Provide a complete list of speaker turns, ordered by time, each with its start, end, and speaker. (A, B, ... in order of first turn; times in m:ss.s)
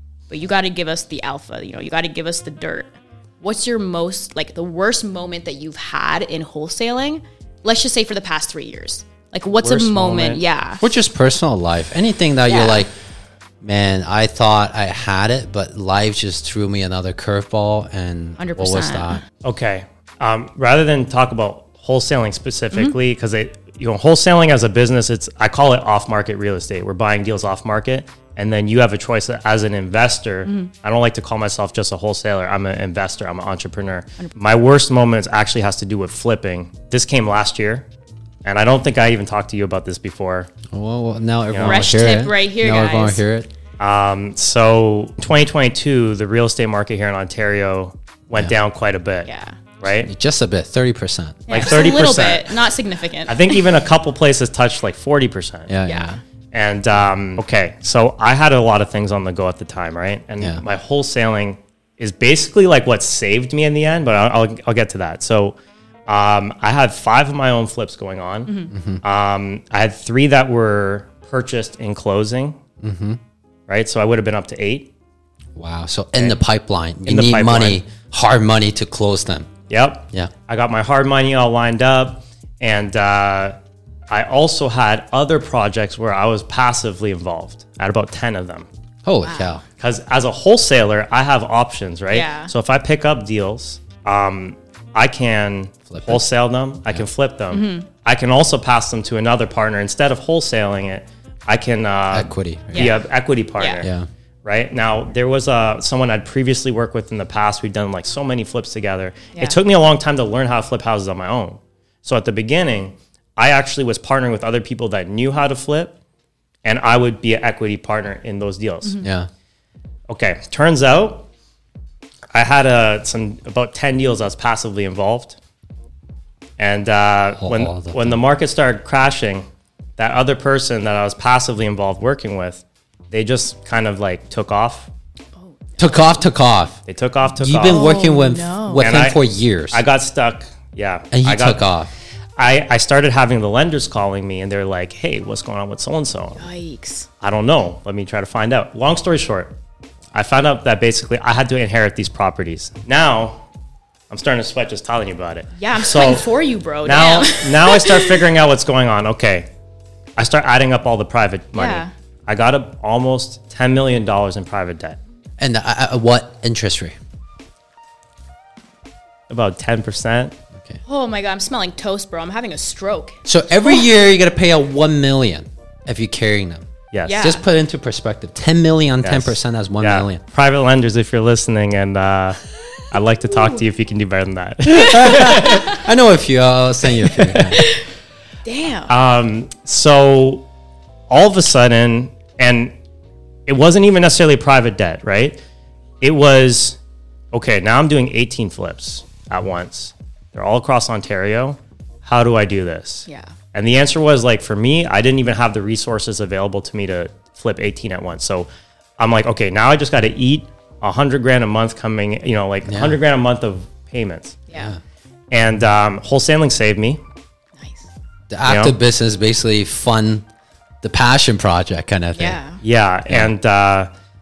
0:00.3-0:10.8 A
0:09.6-0:10.4 B
0:10.8-0:12.9 C
0:12.5-0:12.8 A
0:13.6-0:19.2 C
0:18.4-0:19.2 A
0:19.4-0:37.8 B
0:30.4-0:30.7 A
0:38.4-0:40.5 B
0:40.7-0:43.5 C
0:41.5-0:41.9 B
0:41.6-0:43.2 A
0:43.8-0:49.3 B
0:49.2-0:49.6 A
0:49.8-0:50.1 B
0:50.0-0:51.5 C
0:51.5-0:52.5 B
0:51.5-0:53.6 A
0:53.3-0:55.7 B
0:55.7-0:56.2 C
0:55.8-0:56.2 A
0:56.5-1:12.6 B
1:08.5-1:08.7 A
1:08.7-1:09.0 C
1:12.8-1:13.2 C
1:13.7-1:14.9 B
1:15.5-1:19.5 C
1:17.0-1:17.8 B
1:19.7-1:23.6 B
1:24.1-1:28.7 B
1:29.0-1:29.6 C
1:29.2-1:29.6 A
1:29.8-1:43.9 B
1:32.1-1:32.5 A
1:35.9-1:36.2 C
1:37.5-1:37.9 A
1:42.1-1:43.0 C
1:42.7-1:43.0 A
1:43.6-1:43.8 A
1:43.8-1:44.1 C
1:44.4-1:56.0 B
1:56.6-1:59.0 B
1:59.0-1:59.3 C
2:00.1-2:01.3 B
2:02.3-2:05.4 B
2:06.6-2:09.4 B
2:07.4-2:08.2 C
2:10.0-2:14.9 B
2:15.4-2:16.2 A
2:15.8-2:16.8 C
2:16.8-2:17.9 B
2:17.4-2:19.8 C
2:17.6-2:18.9 A
2:18.8-2:21.6 B
2:21.1-2:21.9 C
2:22.4-2:26.4 B
2:26.4-2:27.1 A
2:27.2-2:29.6 B
2:30.1-2:33.4 B
2:34.1-2:36.3 B
2:35.6-2:38.2 A
2:36.8-2:39.5 B
2:40.2-2:45.0 B
2:41.5-2:41.9 A
2:45.4-2:46.9 C
2:49.3-2:50.3 B
2:50.5-2:50.8 C
2:50.8-2:53.2 A
2:53.2-2:56.7 C
2:56.9-2:57.3 B
2:57.0-2:57.4 A
2:57.2-3:00.2 C
2:59.0-3:02.4 B
3:02.9-3:05.8 B
3:04.7-3:07.6 C
3:07.4-3:07.8 A
3:08.4-3:08.9 A
3:08.9-3:10.5 B
3:11.1-3:12.7 B
3:13.5-3:15.4 B
3:16.0-3:16.8 B
3:17.3-3:34.4 B
3:23.1-3:23.3 A
3:32.6-3:33.0 C
3:34.5-3:34.8 C
3:35.3-3:37.0 B
3:37.6-3:37.9 A
3:38.3-3:40.2 C
3:38.4-3:38.8 B
3:40.8-3:42.4 C
3:42.1-3:42.6 A
3:42.6-3:43.9 B